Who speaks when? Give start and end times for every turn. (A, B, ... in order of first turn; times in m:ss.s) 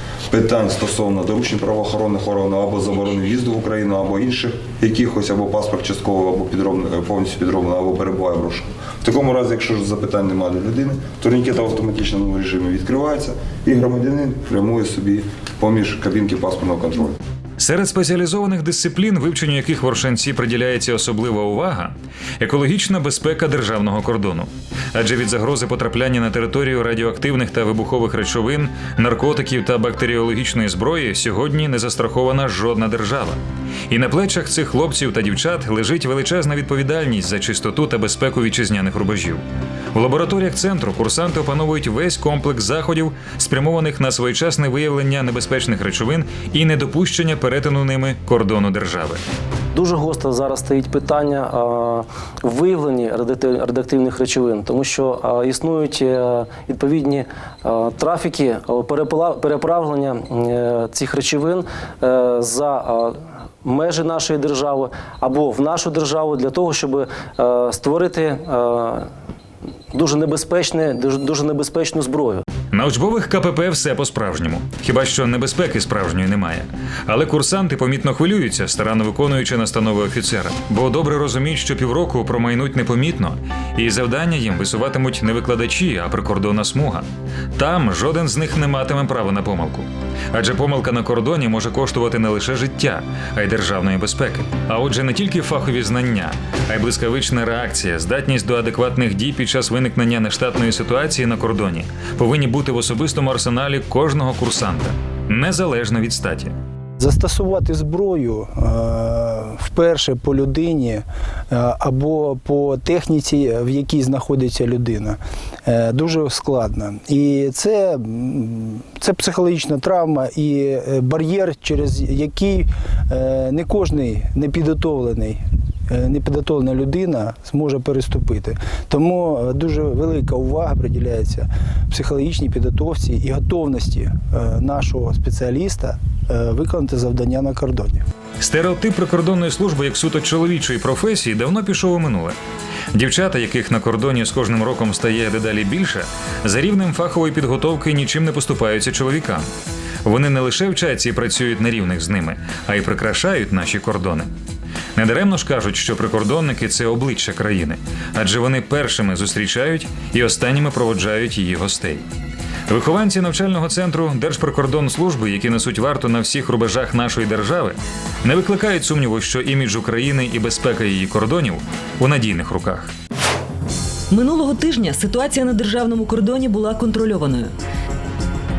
0:00.3-0:17.2 A
0:17.6-0:49.2 B
0:49.7-1:09.1 C
1:09.9-1:12.4 C
1:12.7-1:46.5 B
1:47.0-2:18.0 D
2:18.4-2:22.4 B
2:22.9-2:29.5 B
2:30.0-2:34.3 B
2:35.0-2:42.0 B
2:42.7-2:52.9 B
2:54.1-2:57.5 E